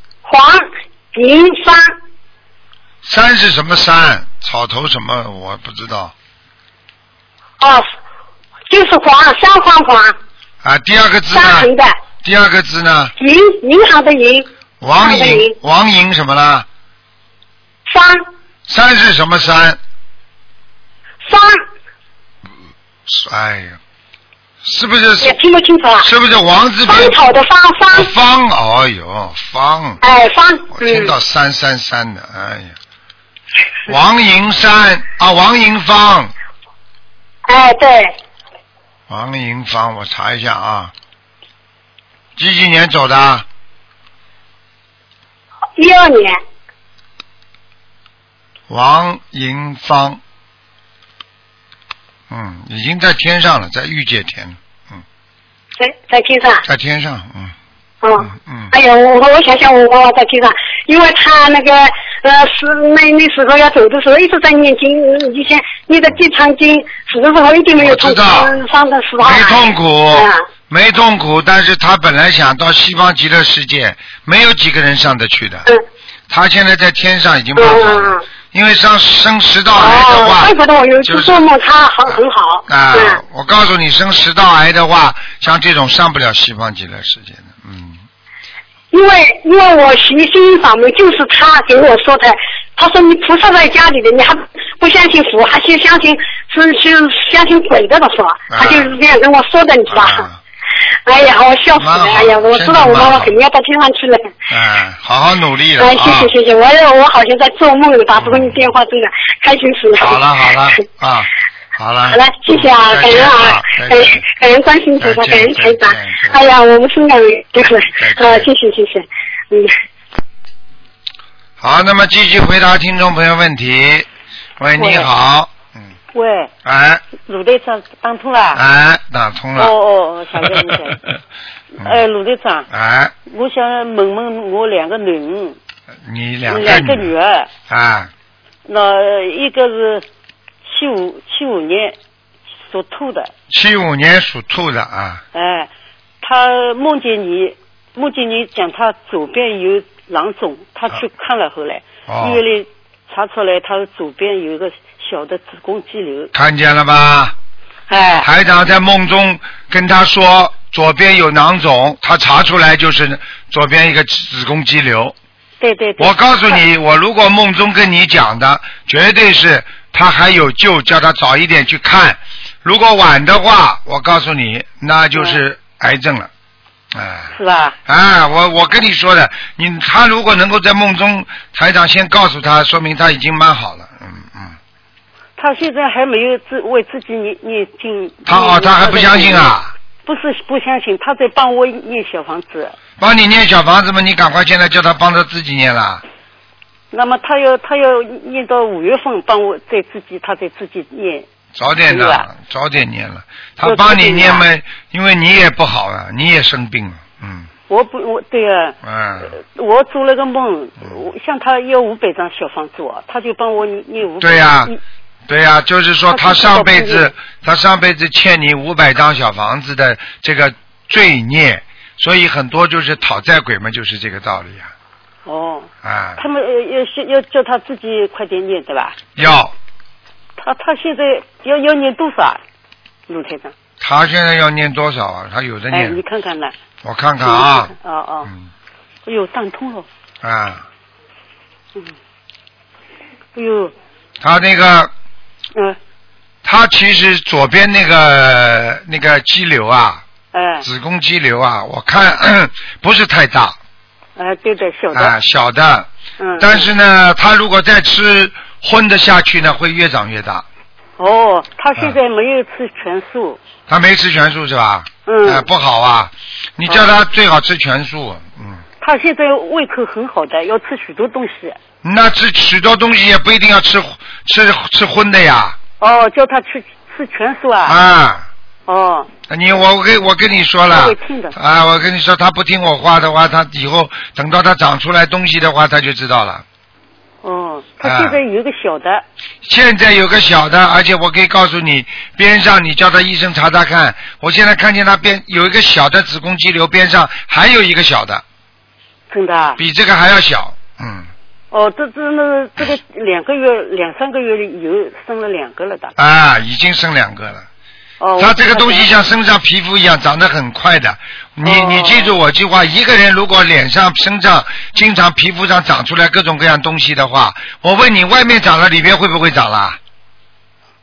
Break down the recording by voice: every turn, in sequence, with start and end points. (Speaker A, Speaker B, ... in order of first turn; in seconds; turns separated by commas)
Speaker A: 0.2-1.9, Speaker B: 3.0-6.1, Speaker A: 7.6-7.8, Speaker A: 8.7-10.1, Speaker B: 10.6-11.7, Speaker A: 11.3-11.9, Speaker B: 12.2-13.1, Speaker A: 13.2-15.5, Speaker B: 14.8-16.6, Speaker A: 17.9-18.2, Speaker B: 18.7-19.8, Speaker A: 21.2-21.6, Speaker B: 23.1-23.8, Speaker B: 24.6-25.4, Speaker A: 25.2-26.1, Speaker B: 26.0-27.2, Speaker A: 26.9-28.1, Speaker B: 27.9-30.0, Speaker A: 30.0-31.1, Speaker B: 30.7-32.8, Speaker B: 33.9-36.3, Speaker A: 37.5-38.1, Speaker B: 39.1-40.9, Speaker B: 42.4-43.5, Speaker A: 45.8-46.4, Speaker B: 48.7-50.2, Speaker B: 52.3-55.0, Speaker A: 55.8-56.6, Speaker B: 56.6-57.5, Speaker A: 58.0-70.4, Speaker B: 58.2-58.7, Speaker B: 67.8-68.6, Speaker B: 69.2-75.7, Speaker B: 76.3-81.4, Speaker A: 77.6-78.2, Speaker A: 79.7-83.2, Speaker B: 82.1-88.0, Speaker A: 88.9-100.2, Speaker B: 98.5-98.9, Speaker B: 99.9-100.4, Speaker A: 101.0-104.3, Speaker B: 101.8-103.4, Speaker B: 104.5-106.3, Speaker A: 105.8-110.2, Speaker B: 108.2-108.7, Speaker B: 110.0-114.2, Speaker A: 112.1-119.7, Speaker B: 115.0-116.4, Speaker B: 118.0-118.5, Speaker B: 121.6-124.1, Speaker B: 124.6-125.8, Speaker C: 124.8-125.1, Speaker C: 126.1-126.5, Speaker B: 126.6-127.0, Speaker C: 127.2-128.6, Speaker B: 128.5-129.7, Speaker C: 129.6-131.0, Speaker C: 131.8-132.7, Speaker B: 132.7-133.1, Speaker C: 133.2-135.6, Speaker B: 136.0-137.1, Speaker C: 136.5-137.5, Speaker B: 137.7-138.1, Speaker C: 138.7-140.0, Speaker C: 140.6-142.0, Speaker C: 142.7-143.3, Speaker B: 143.5-145.2, Speaker C: 145.3-145.7, Speaker C: 146.2-156.3, Speaker B: 152.1-152.4, Speaker B: 156.3-157.3, Speaker C: 157.9-158.3, Speaker B: 158.2-165.1, Speaker C: 165.6-166.6, Speaker B: 166.0-176.3, Speaker C: 175.1-175.4, Speaker B: 176.9-177.3, Speaker C: 177.3-177.8, Speaker B: 177.8-184.6, Speaker C: 185.4-192.8, Speaker B: 188.2-189.7, Speaker B: 193.0-196.0, Speaker C: 196.9-201.3, Speaker B: 201.5-207.5, Speaker C: 201.8-202.3, Speaker C: 203.6-204.4, Speaker C: 207.7-214.8, Speaker B: 208.8-209.3, Speaker B: 214.2-214.7, Speaker B: 215.3-224.7, Speaker C: 216.1-217.1, Speaker C: 225.2-229.0, Speaker B: 225.8-226.2, Speaker B: 229.2-229.5, Speaker C: 230.4-232.4, Speaker C: 233.1-233.5, Speaker B: 233.8-236.0, Speaker C: 235.7-236.5, Speaker B: 236.8-237.7, Speaker C: 237.2-238.3, Speaker C: 239.1-239.9, Speaker B: 240.2-240.6, Speaker C: 243.3-243.7, Speaker B: 244.2-244.9, Speaker B: 246.4-250.0, Speaker C: 250.3-250.7, Speaker B: 250.6-253.6, Speaker C: 254.2-255.2, Speaker B: 254.9-260.4, Speaker C: 256.2-256.7, Speaker C: 261.0-263.4, Speaker B: 263.7-268.6, Speaker C: 265.1-265.4, Speaker C: 266.7-266.9, Speaker C: 268.8-271.6, Speaker B: 271.8-275.6, Speaker C: 275.8-277.8, Speaker B: 277.6-278.3, Speaker C: 278.7-279.1, Speaker B: 279.3-286.4, Speaker C: 280.7-281.4, Speaker C: 287.2-289.0, Speaker B: 287.8-288.2, Speaker B: 289.4-298.2, Speaker C: 299.1-299.6, Speaker B: 299.6-301.1, Speaker C: 301.5-305.9, Speaker B: 306.0-307.4, Speaker C: 308.0-308.9, Speaker B: 308.2-319.8, Speaker C: 311.4-312.2